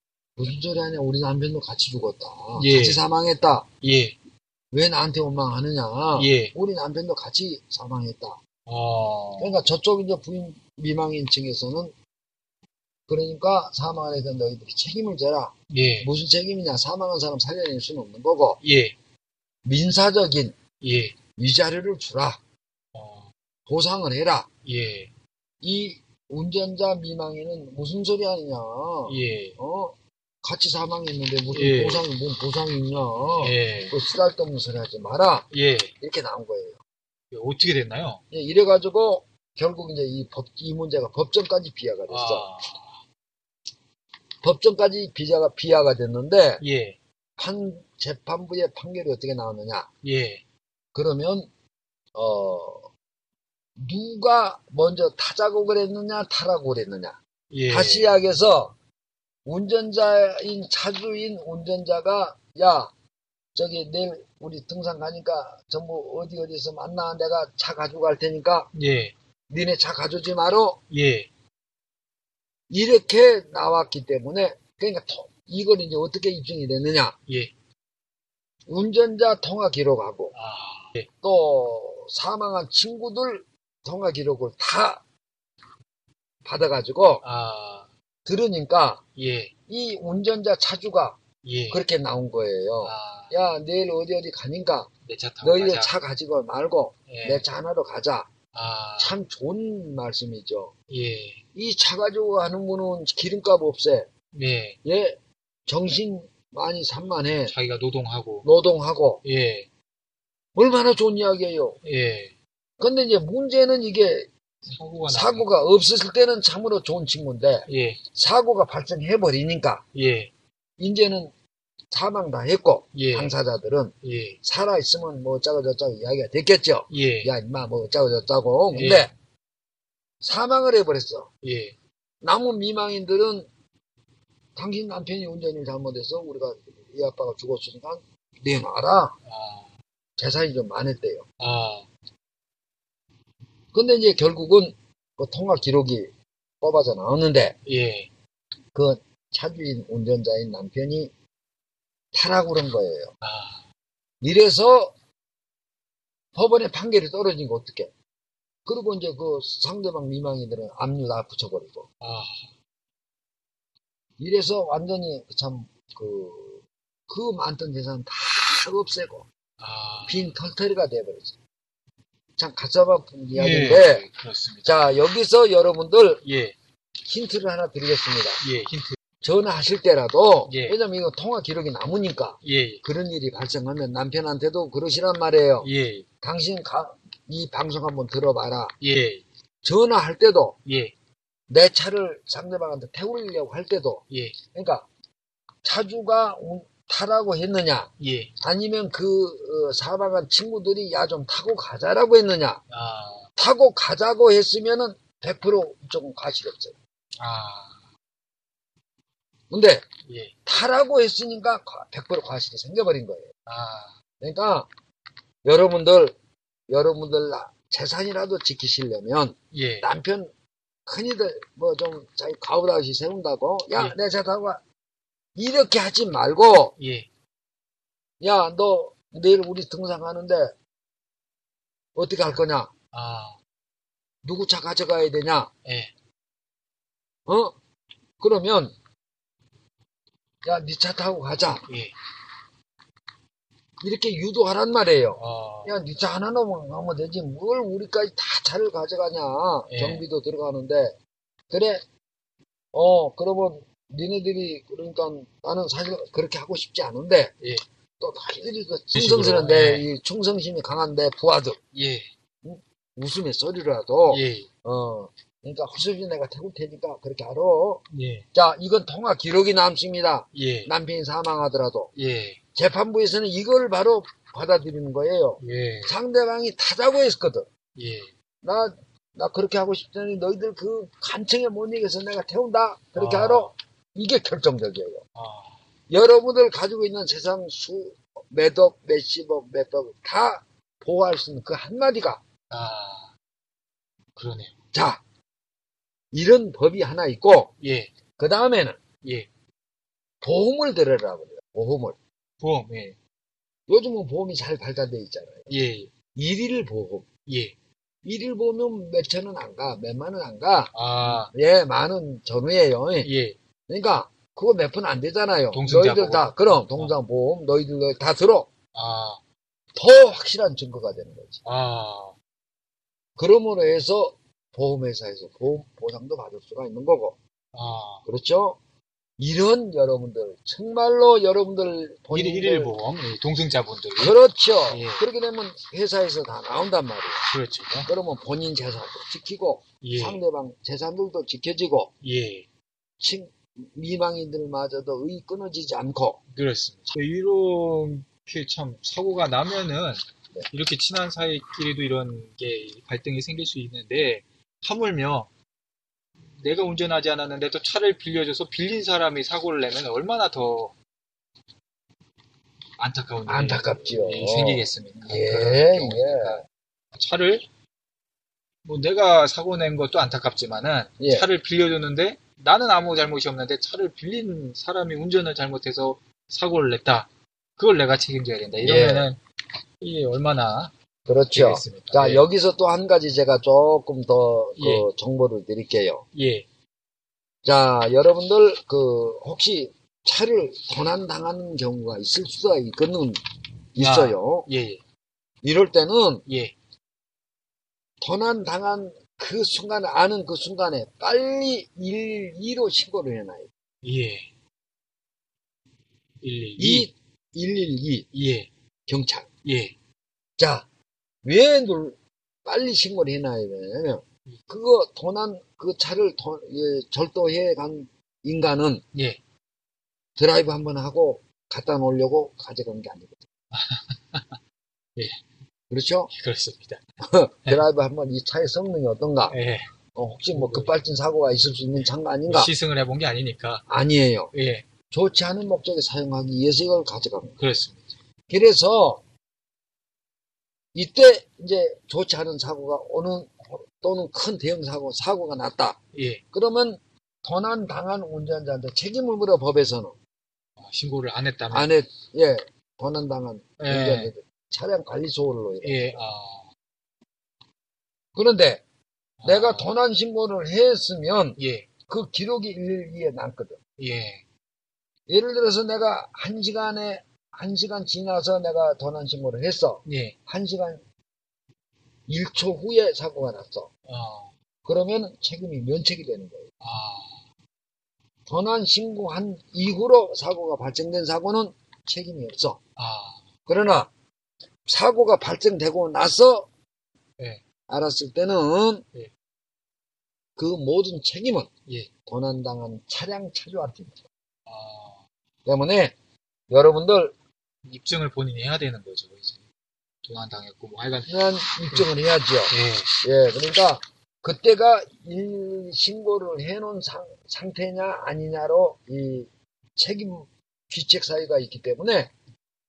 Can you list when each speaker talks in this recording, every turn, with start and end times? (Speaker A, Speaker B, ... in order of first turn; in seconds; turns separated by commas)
Speaker A: 0.4-3.7, Speaker B: 2.6-3.0, Speaker B: 3.8-4.2, Speaker A: 4.7-8.4, Speaker B: 6.2-6.5, Speaker B: 8.7-9.6, Speaker A: 9.4-11.9, Speaker A: 13.1-18.6, Speaker B: 15.7-16.1, Speaker B: 18.6-18.9, Speaker A: 19.6-20.6, Speaker B: 20.8-21.2, Speaker A: 21.4-22.4, Speaker B: 22.9-23.3, Speaker A: 23.7-24.5, Speaker B: 24.6-25.1, Speaker A: 25.6-35.5, Speaker B: 29.1-29.6, Speaker B: 31.5-32.0, Speaker B: 33.4-33.9, Speaker B: 35.5-35.9, Speaker A: 36.0-36.8, Speaker B: 37.3-38.2, Speaker A: 38.3-42.5, Speaker B: 42.1-43.0, Speaker A: 44.4-46.6, Speaker B: 46.6-47.0, Speaker A: 47.4-49.9, Speaker B: 50.0-50.4, Speaker A: 50.9-51.5, Speaker A: 52.1-52.9, Speaker A: 53.8-57.2, Speaker B: 57.5-58.1, Speaker A: 57.7-58.8, Speaker A: 59.5-62.9, Speaker A: 63.5-68.7, Speaker B: 68.7-69.1, Speaker A: 69.5-70.8, Speaker B: 70.9-71.3, Speaker A: 72.7-77.2, Speaker B: 77.3-77.5, Speaker A: 78.7-80.3, Speaker B: 80.3-81.1, Speaker A: 81.2-85.0, Speaker A: 86.5-87.2, Speaker B: 87.2-87.9, Speaker A: 88.2-89.0, Speaker B: 89.2-89.5, Speaker A: 89.7-94.9, Speaker B: 91.4-91.8, Speaker B: 92.8-93.5, Speaker B: 95.0-95.9, Speaker A: 95.4-98.3, Speaker B: 97.1-97.5, Speaker B: 98.5-99.2, Speaker A: 99.0-100.7, Speaker B: 100.9-101.4, Speaker A: 101.5-104.1, Speaker B: 104.3-104.8, Speaker A: 104.8-107.5, Speaker B: 107.5-108.5, Speaker A: 108.4-109.2, Speaker B: 109.2-109.7, Speaker A: 110.5-111.8, Speaker B: 111.8-112.3, Speaker A: 112.8-114.3, Speaker B: 114.7-115.5, Speaker A: 115.1-119.8, Speaker B: 117.7-118.0, Speaker B: 119.9-120.3, Speaker A: 120.8-121.3, Speaker A: 121.9-129.1, Speaker B: 122.9-123.4, Speaker B: 124.0-124.4, Speaker B: 126.9-127.3, Speaker B: 128.7-129.1, Speaker A: 130.2-131.3, Speaker B: 131.4-131.8, Speaker A: 132.2-133.5, Speaker A: 134.6-139.2, Speaker B: 139.3-139.7, Speaker A: 140.2-141.3, Speaker B: 141.4-141.9, Speaker A: 143.7-147.6, Speaker B: 147.7-148.1, Speaker A: 148.7-151.1, Speaker A: 152.1-153.1, Speaker B: 153.2-153.6, Speaker A: 154.2-154.9, Speaker A: 156.3-157.9, Speaker A: 158.7-161.9, Speaker B: 162.0-162.5, Speaker A: 164.2-169.3, Speaker B: 169.6-170.3, Speaker A: 170.1-171.3, Speaker A: 172.4-174.1, Speaker B: 173.3-175.0, Speaker A: 174.6-176.2, Speaker B: 176.2-176.6, Speaker A: 177.0-178.4, Speaker B: 178.4-179.0, Speaker A: 179.2-185.7, Speaker B: 180.5-180.8, Speaker B: 182.4-182.8, Speaker B: 185.6-186.1, Speaker A: 186.2-188.8, Speaker B: 188.8-189.2, Speaker A: 189.6-190.6, Speaker B: 190.7-190.9, Speaker A: 191.5-194.9, Speaker B: 194.1-194.4, Speaker A: 195.6-202.6, Speaker B: 198.0-198.3, Speaker B: 202.7-203.3, Speaker A: 203.4-206.8, Speaker B: 207.2-207.8, Speaker A: 209.5-209.9, Speaker B: 210.1-210.3, Speaker A: 210.5-213.3, Speaker B: 213.5-214.0, Speaker A: 214.2-214.7, Speaker A: 215.4-216.2, Speaker A: 216.7-220.3, Speaker B: 219.5-219.9, Speaker A: 220.9-224.6, Speaker A: 225.4-226.8, Speaker B: 226.8-227.1, Speaker A: 228.2-230.5, Speaker A: 231.9-232.7, Speaker B: 232.9-233.4, Speaker A: 234.2-235.5, Speaker B: 235.7-235.9, Speaker A: 237.3-237.6, Speaker A: 238.2-238.7, Speaker A: 240.4-241.7, Speaker B: 241.7-241.9, Speaker A: 243.8-251.0, Speaker B: 245.2-245.8, Speaker B: 249.7-250.1, Speaker A: 251.5-251.8, Speaker A: 252.7-257.3, Speaker A: 258.0-261.6, Speaker B: 258.9-259.9, Speaker B: 261.7-262.1, Speaker A: 262.4-271.9, Speaker B: 264.1-264.5, Speaker B: 267.9-268.3, Speaker B: 270.3-270.7, Speaker B: 271.9-272.4, Speaker A: 272.6-277.5, Speaker B: 275.4-276.0, Speaker B: 277.8-278.1, Speaker A: 278.4-285.0, Speaker B: 282.9-283.5, Speaker B: 285.2-285.6, Speaker A: 285.9-292.2, Speaker B: 292.5-293.1, Speaker B: 294.2-294.5, Speaker A: 294.7-295.0, Speaker A: 296.1-297.5, Speaker B: 297.6-297.9, Speaker A: 298.2-298.8, Speaker A: 300.2-302.0, Speaker B: 302.4-303.0, Speaker A: 303.7-305.5, Speaker B: 305.5-305.9, Speaker A: 306.1-307.1, Speaker B: 307.3-307.6, Speaker A: 308.0-313.1, Speaker B: 310.7-311.3, Speaker B: 313.0-313.4, Speaker A: 313.7-318.5, Speaker B: 315.5-316.9, Speaker B: 318.7-319.2, Speaker A: 319.8-321.4, Speaker B: 321.4-322.1, Speaker A: 323.2-327.2, Speaker B: 327.5-328.0, Speaker A: 328.1-328.6, Speaker A: 329.2-332.8, Speaker B: 332.1-334.2, Speaker A: 334.0-337.2, Speaker B: 334.7-335.0, Speaker B: 337.3-337.9, Speaker A: 337.8-341.9, Speaker B: 339.8-340.2, Speaker B: 342.0-342.5, Speaker A: 343.0-346.2, Speaker B: 346.3-355.3, Speaker B: 356.3-360.7, Speaker B: 362.8-367.5, Speaker A: 363.3-366.4, Speaker B: 368.6-379.2, Speaker A: 371.0-371.3, Speaker A: 378.6-379.1, Speaker B: 379.8-380.7, Speaker A: 381.1-386.1, Speaker B: 381.3-382.2, Speaker B: 384.6-384.9, Speaker B: 386.1-386.4, Speaker A: 387.4-393.2, Speaker A: 393.7-394.5, Speaker B: 393.8-394.8, Speaker A: 395.4-396.2, Speaker B: 396.3-396.5, Speaker A: 398.0-403.5, Speaker B: 403.8-404.3, Speaker B: 406.2-406.9, Speaker A: 406.6-408.1, Speaker B: 408.1-408.5, Speaker A: 408.9-409.3, Speaker B: 409.4-409.7, Speaker A: 410.4-410.7, Speaker A: 411.2-418.8, Speaker B: 418.9-419.2, Speaker A: 420.2-423.2, Speaker B: 423.5-424.4, Speaker A: 425.7-426.1, Speaker B: 426.1-426.8, Speaker A: 427.0-429.4, Speaker B: 429.3-429.7, Speaker A: 429.9-432.5, Speaker B: 430.3-430.8, Speaker B: 432.3-433.6, Speaker A: 433.7-434.3, Speaker B: 434.3-434.7, Speaker A: 434.9-437.4, Speaker B: 437.4-437.9, Speaker A: 438.3-439.0, Speaker A: 440.7-445.8, Speaker B: 445.9-446.2, Speaker A: 446.3-449.9, Speaker B: 450.6-451.8, Speaker A: 451.5-456.0, Speaker B: 453.6-454.1, Speaker B: 455.6-456.5, Speaker A: 458.1-458.6, Speaker B: 459.2-459.7, Speaker A: 459.2-463.6, Speaker B: 461.4-461.7, Speaker B: 463.8-464.2, Speaker A: 465.1-470.8, Speaker B: 469.9-470.1, Speaker A: 472.1-473.7, Speaker B: 473.9-474.3, Speaker A: 474.6-476.5, Speaker B: 476.6-477.2, Speaker A: 478.3-482.6, Speaker B: 482.8-483.2, Speaker A: 483.5-483.9, Speaker A: 484.7-486.5, Speaker A: 487.7-488.9, Speaker A: 490.4-491.5, Speaker A: 492.1-494.0, Speaker B: 494.5-495.0, Speaker A: 495.5-496.0, Speaker A: 496.5-497.1, Speaker B: 497.7-499.4, Speaker B: 500.1-501.9, Speaker A: 501.1-512.1, Speaker B: 502.5-502.9